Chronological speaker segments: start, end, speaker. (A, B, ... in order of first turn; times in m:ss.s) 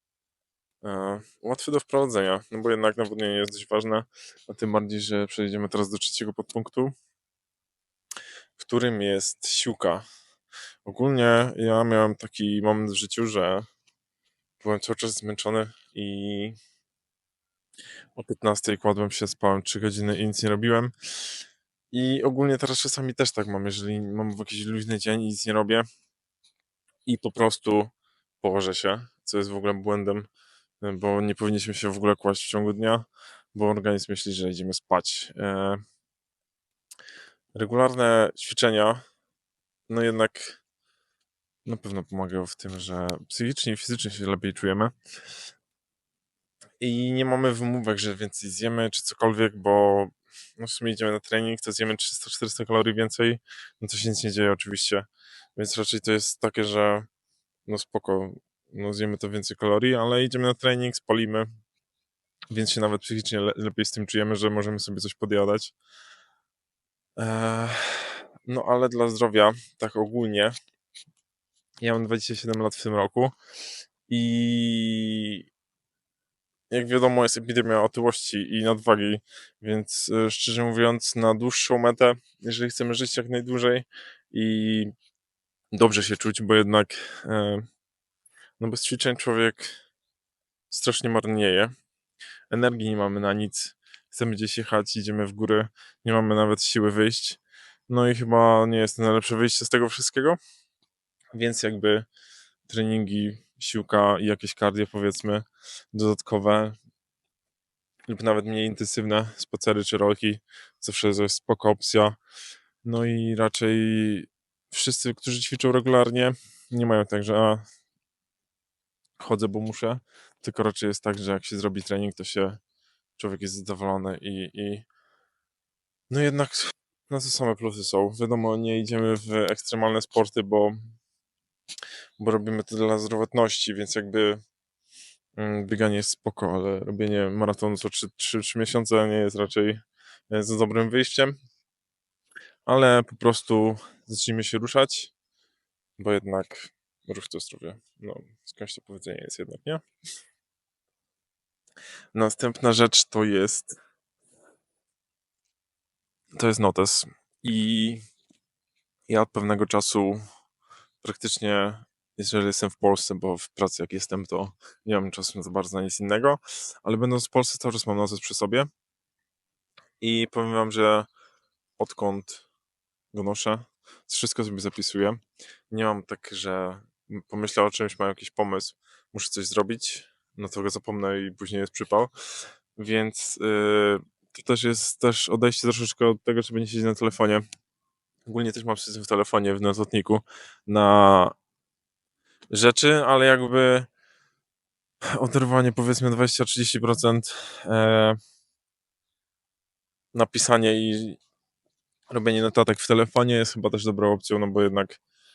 0:00.8-0:06.9 A
0:08.6-0:10.0 A
0:10.8-0:13.6 A
0:14.6-0:16.6 A
0:18.2-0:20.9 A
0:21.9-0:25.8 A
0:27.0-0:30.3 A
0:30.8-0:35.8 A
0:37.5-0:39.0 A
0:39.9-0:40.6 A
0:41.6-0:44.9 A
0:46.8-0:57.0 A
0:57.6-1:01.5 A
1:02.5-1:05.7 A
1:07.2-1:10.5 A
1:11.8-1:13.3 A
1:14.1-1:15.4 A
1:16.7-1:24.9 A
1:25.7-1:27.6 A
1:28.6-1:29.7 A
1:30.7-1:31.7 A
1:32.5-1:40.4 A
1:41.3-1:42.0 A
1:42.7-1:46.8 A
1:48.1-1:52.2 A
1:52.8-1:57.6 A
1:59.2-2:02.6 A
2:03.2-2:04.8 A
2:06.1-2:10.8 A
2:12.2-2:14.4 A
2:15.4-2:21.4 A
2:22.6-2:25.1 A
2:26.0-2:29.8 A
2:32.1-2:33.8 A
2:36.3-2:38.0 A
2:39.1-2:40.2 A
2:41.0-2:48.7 A
2:50.0-2:51.1 A
2:51.8-2:52.4 A
2:53.1-2:55.2 A
2:55.7-3:02.1 A
3:02.8-3:07.4 A
3:08.2-3:11.3 A
3:12.5-3:13.9 A
3:15.1-3:18.2 A
3:20.1-3:21.2 A
3:22.1-3:25.0 A